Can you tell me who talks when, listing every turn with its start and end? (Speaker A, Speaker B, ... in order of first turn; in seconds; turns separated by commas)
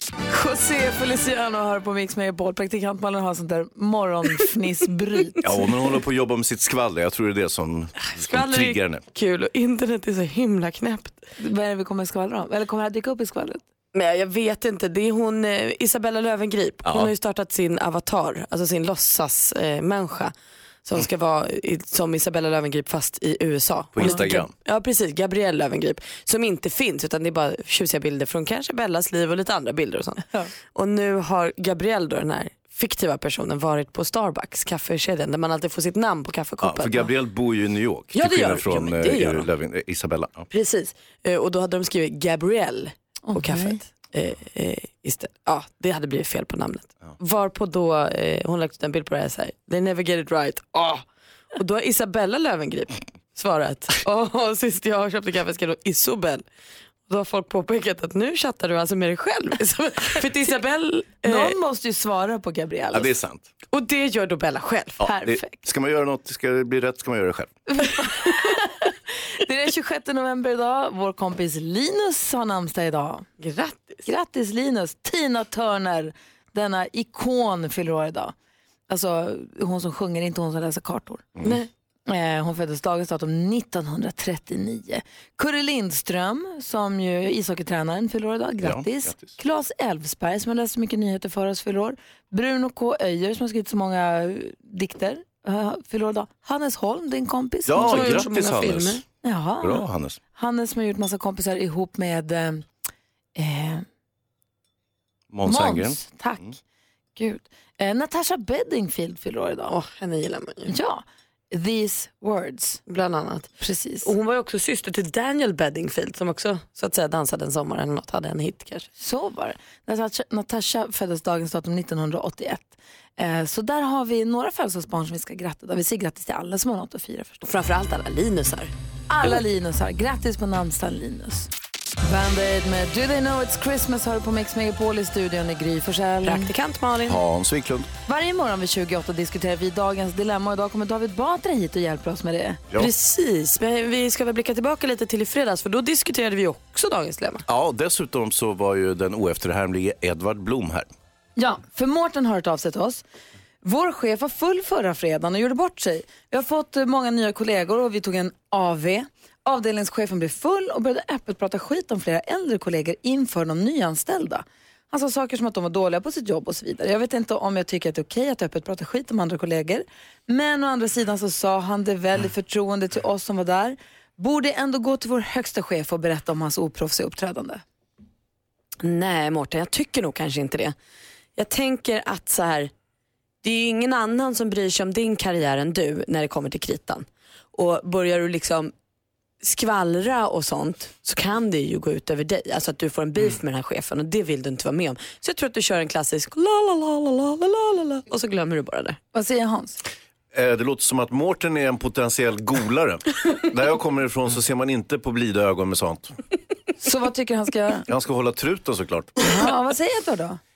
Speaker A: 0.3-5.5, Speaker B: 5.4-9.0, Speaker C: 8.1-11.2, Speaker A: 11.4-13.6, Speaker C: 13.9-20.3, Speaker B: 16.9-17.1, Speaker C: 20.9-37.1, Speaker B: 23.9-24.5, Speaker B: 36.6-40.5, Speaker C: 38.1-39.5, Speaker C: 40.5-51.0, Speaker A: 43.2-43.8, Speaker C: 51.6-56.5, Speaker C: 57.1-61.6, Speaker A: 61.2-63.1, Speaker B: 62.9-63.5, Speaker C: 63.7-65.0, Speaker B: 65.0-67.5, Speaker A: 65.0-65.6, Speaker A: 67.7-68.7, Speaker A: 69.4-73.3, Speaker C: 73.4-74.0, Speaker A: 74.0-78.3, Speaker A: 78.9-81.3, Speaker C: 81.4-81.7, Speaker A: 82.1-98.3, Speaker B: 88.6-89.3, Speaker B: 97.7-99.0, Speaker C: 97.8-99.0, Speaker A: 99.2-102.6, Speaker B: 99.6-100.2, Speaker A: 103.4-103.8, Speaker B: 105.3-106.5, Speaker A: 105.5-106.5, Speaker A: 107.2-109.7, Speaker C: 109.7-110.7, Speaker A: 110.7-112.8, Speaker C: 112.9-113.5, Speaker A: 113.6-114.1, Speaker C: 114.0-118.9, Speaker A: 119.0-127.5, Speaker C: 127.4-128.7, Speaker A: 129.1-131.5, Speaker A: 132.0-136.5, Speaker C: 136.2-137.2, Speaker B: 137.1-137.9, Speaker A: 138.1-142.6, Speaker C: 142.8-147.4, Speaker B: 147.5-150.9, Speaker A: 151.4-153.0, Speaker A: 153.6-177.6, Speaker C: 178.8-180.8, Speaker C: 181.4-182.7, Speaker C: 183.4-188.7, Speaker C: 189.4-199.0, Speaker A: 199.1-199.8, Speaker B: 200.3-206.2, Speaker A: 206.8-207.8, Speaker B: 207.9-209.1, Speaker A: 209.2-210.4